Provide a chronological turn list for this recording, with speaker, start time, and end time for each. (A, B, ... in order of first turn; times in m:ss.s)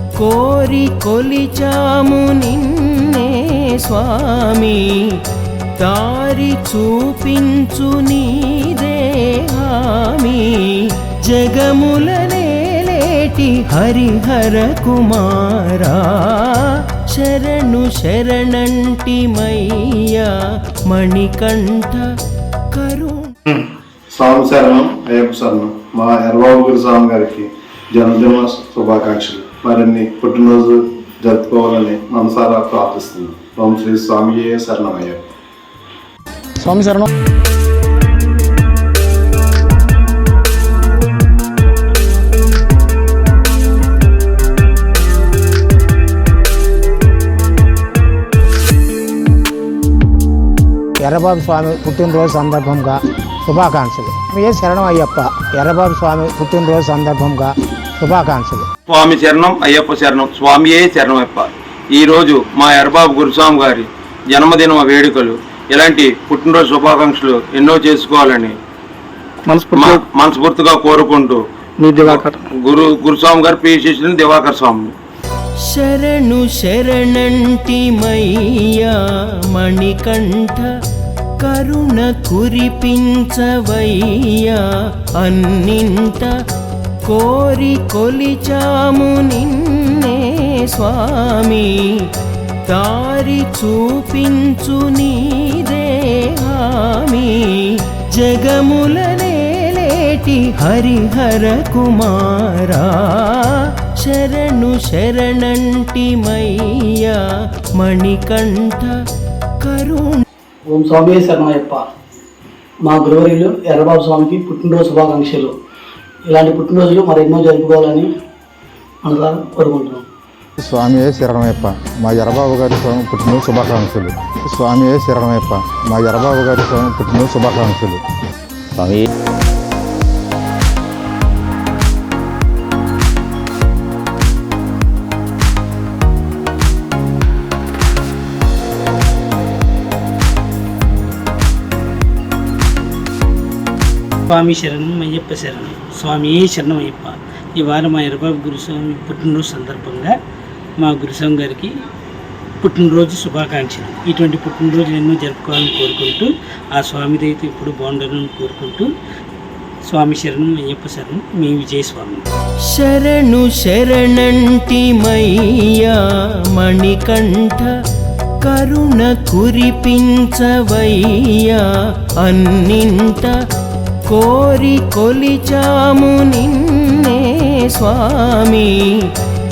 0:00.2-0:05.2 A
0:05.8-0:22.1 A
0:22.7-0:23.3 A
0:24.1-0:35.2 B
0:36.6-0:37.1 C
0:51.0-0:58.6 C
0:58.9-1:08.5 D
1:09.7-1:11.4 D
1:12.1-1:14.9 D
1:15.6-1:20.7 A
1:21.4-1:26.4 A
1:27.0-1:32.1 A
1:32.6-1:47.2 A
1:47.8-1:49.0 A
1:49.6-1:50.2 A
1:50.7-1:51.8 E
1:52.8-1:55.5 E
1:56.3-1:58.1 E
1:59.0-2:00.0 E
2:00.6-2:08.0 F
2:24.3-2:30.1 G
2:30.8-2:31.8 G
2:32.6-2:38.9 G
2:39.9-2:42.2 G
2:42.6-2:47.7 A
2:48.4-2:53.4 A
2:54.1-2:59.1 A